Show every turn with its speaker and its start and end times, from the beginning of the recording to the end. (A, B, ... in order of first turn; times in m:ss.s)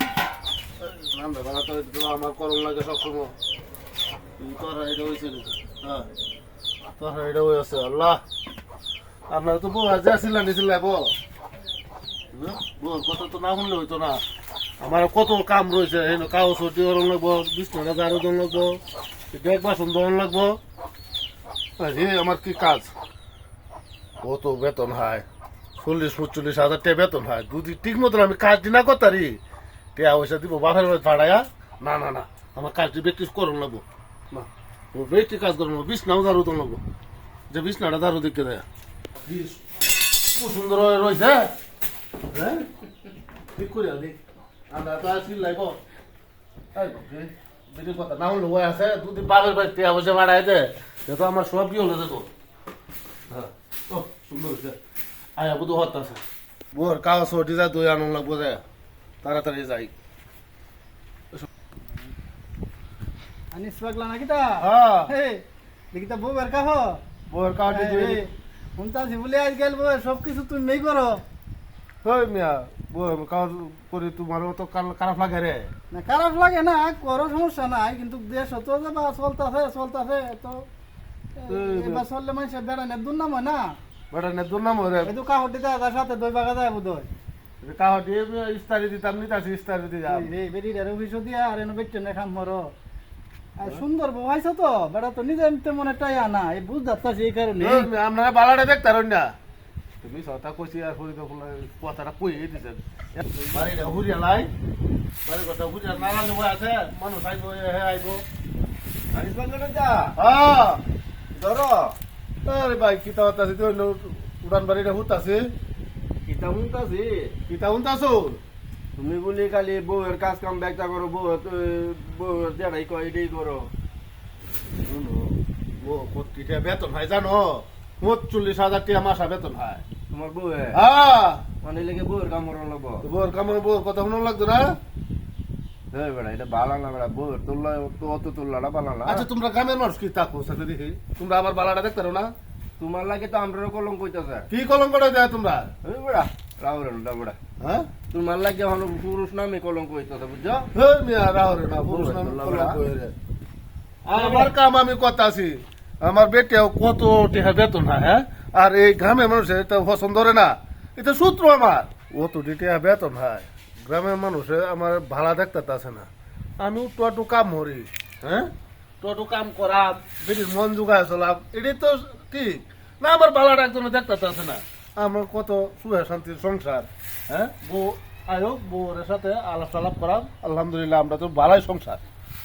0:00.8-0:03.3 A
0:04.4-0:06.1 A
0:07.0-0:08.2 A
0:09.3-0:11.1 A
0:12.3-0:14.2 A
0:14.8-0:18.8 A
0:19.3-0:20.6 A
0:21.8-0:22.9 A
0:24.2-0:25.2 A
0:25.8-0:29.4 A
0:30.0-0:36.8 A
0:37.5-0:38.6 A
0:39.2-0:39.6 A
0:40.3-0:41.5 A
0:42.3-0:42.6 A
0:43.5-0:44.2 A
0:44.7-0:45.8 A
0:46.7-0:52.3 A
0:53.3-0:54.8 A
0:55.4-0:56.2 A
0:56.7-0:58.6 A
0:59.2-0:59.9 A
1:03.5-1:07.0 B
1:04.6-1:05.1 A
1:07.3-1:08.2 A
1:07.7-1:11.2 B
1:12.0-1:15.7 A
1:15.9-1:20.6 B
1:21.4-1:23.7 B
1:21.5-1:22.0 A
1:24.1-1:25.1 A
1:25.0-1:27.1 B
1:27.6-1:30.3 A
1:30.1-1:32.7 B
1:33.6-1:37.9 B
1:37.6-1:39.3 A
1:40.0-1:42.8 A
1:43.2-1:43.8 C
1:43.5-1:44.5 A
1:45.2-1:48.2 A
1:49.1-1:50.1 C
1:50.2-1:50.8 A
1:51.3-1:51.9 C
1:52.4-1:55.5 A
1:56.2-1:57.4 C
1:57.5-1:58.4 A
1:59.0-2:03.7 C
2:04.8-2:09.8 A
2:10.1-2:10.8 C
2:10.7-2:11.4 A
2:11.6-2:13.0 C
2:13.0-2:14.7 A
2:15.9-2:19.3 C
2:19.0-2:22.3 A
2:22.8-2:24.5 C
2:24.5-2:25.7 A
2:25.8-2:27.4 C
2:27.6-2:27.9 A
2:28.1-2:30.7 C
2:30.7-2:33.1 A
2:31.8-2:32.8 C
2:34.0-2:46.1 A
2:34.1-2:34.5 C
2:46.6-3:02.0 A